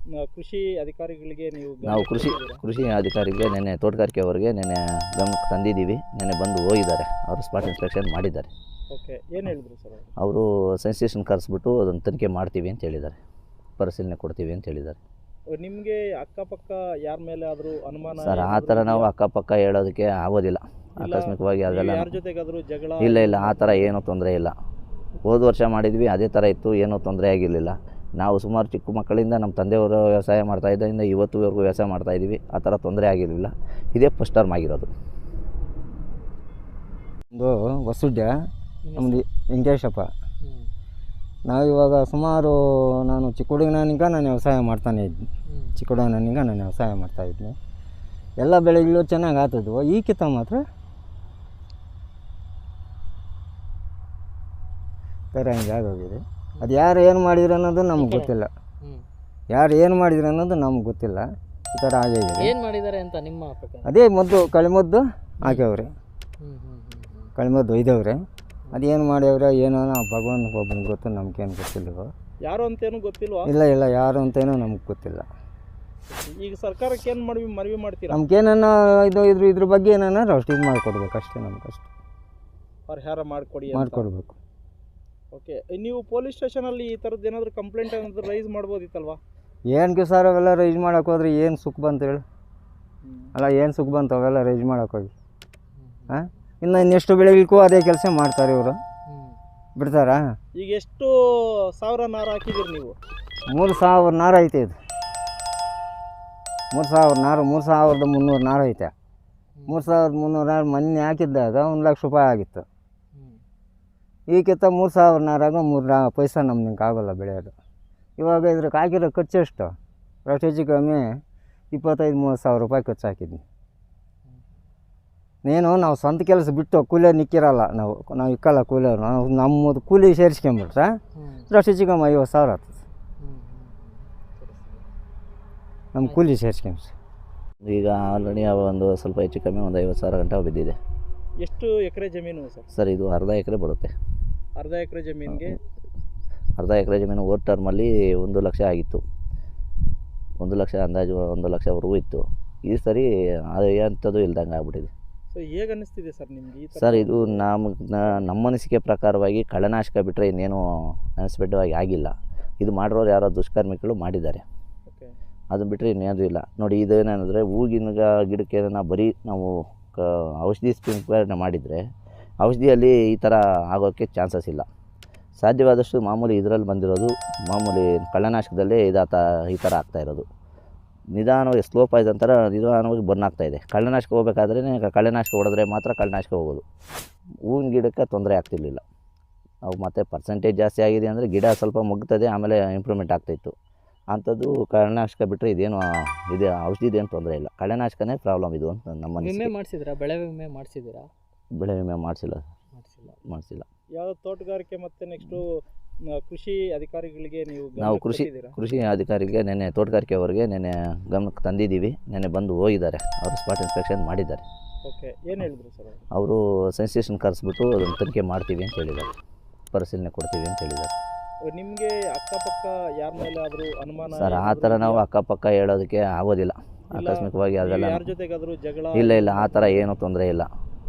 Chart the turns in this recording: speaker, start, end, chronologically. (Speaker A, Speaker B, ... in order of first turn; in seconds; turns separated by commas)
Speaker A: 0.2-2.6, Speaker B: 1.8-8.5, Speaker A: 8.9-10.1, Speaker B: 10.2-13.2, Speaker B: 13.8-15.0, Speaker A: 15.5-19.1, Speaker B: 18.2-22.1, Speaker A: 21.0-23.9, Speaker B: 23.0-24.5, Speaker B: 25.3-34.9, Speaker C: 37.3-38.3, Speaker D: 38.8-39.2, Speaker C: 39.0-40.1, Speaker D: 40.4-40.7, Speaker C: 41.5-47.5, Speaker D: 45.5-45.7, Speaker C: 48.4-50.6, Speaker C: 55.3-58.5, Speaker D: 58.0-59.0, Speaker C: 59.5-62.5, Speaker D: 62.4-63.9, Speaker C: 63.8-65.9, Speaker D: 66.4-67.3, Speaker C: 67.4-68.2, Speaker C: 68.7-72.1, Speaker A: 72.4-73.5, Speaker C: 73.4-75.2, Speaker A: 76.1-78.2, Speaker C: 78.1-81.9, Speaker A: 82.9-84.1, Speaker C: 83.7-84.3, Speaker A: 85.3-89.2, Speaker C: 89.7-92.2, Speaker A: 93.0-93.3, Speaker C: 93.3-95.1, Speaker D: 95.7-96.4, Speaker C: 96.1-98.8, Speaker D: 99.0-99.4, Speaker C: 99.8-100.2, Speaker A: 100.5-101.1, Speaker A: 101.8-102.9, Speaker C: 103.5-104.7, Speaker C: 106.7-108.9, Speaker D: 109.5-109.9, Speaker C: 109.7-112.6, Speaker D: 113.1-113.4, Speaker C: 114.3-117.5, Speaker C: 118.2-119.7, Speaker C: 120.2-121.1, Speaker C: 121.7-123.4, Speaker C: 125.4-130.9, Speaker D: 131.2-131.5, Speaker C: 131.5-132.7, Speaker D: 133.2-134.8, Speaker C: 135.9-136.9, Speaker B: 137.6-140.8, Speaker A: 141.4-142.7, Speaker B: 142.7-143.9, Speaker A: 144.6-145.6, Speaker B: 146.6-149.0, Speaker B: 150.4-154.9, Speaker A: 155.3-157.5, Speaker B: 156.8-160.6, Speaker B: 161.2-164.4, Speaker A: 164.9-165.1, Speaker B: 165.5-171.8, Speaker B: 172.4-174.7, Speaker B: 175.4-180.2, Speaker B: 181.1-186.6, Speaker B: 187.5-188.8, Speaker B: 189.7-193.5, Speaker B: 194.1-199.5, Speaker D: 199.2-201.1, Speaker B: 201.6-202.4, Speaker D: 202.8-203.2, Speaker B: 203.2-203.7, Speaker A: 204.0-205.4, Speaker A: 206.1-208.6, Speaker B: 207.8-214.4, Speaker A: 214.8-216.0, Speaker B: 216.1-219.1, Speaker B: 219.7-220.9, Speaker A: 221.5-225.0, Speaker B: 224.2-228.0, Speaker A: 226.9-229.9, Speaker B: 228.9-230.5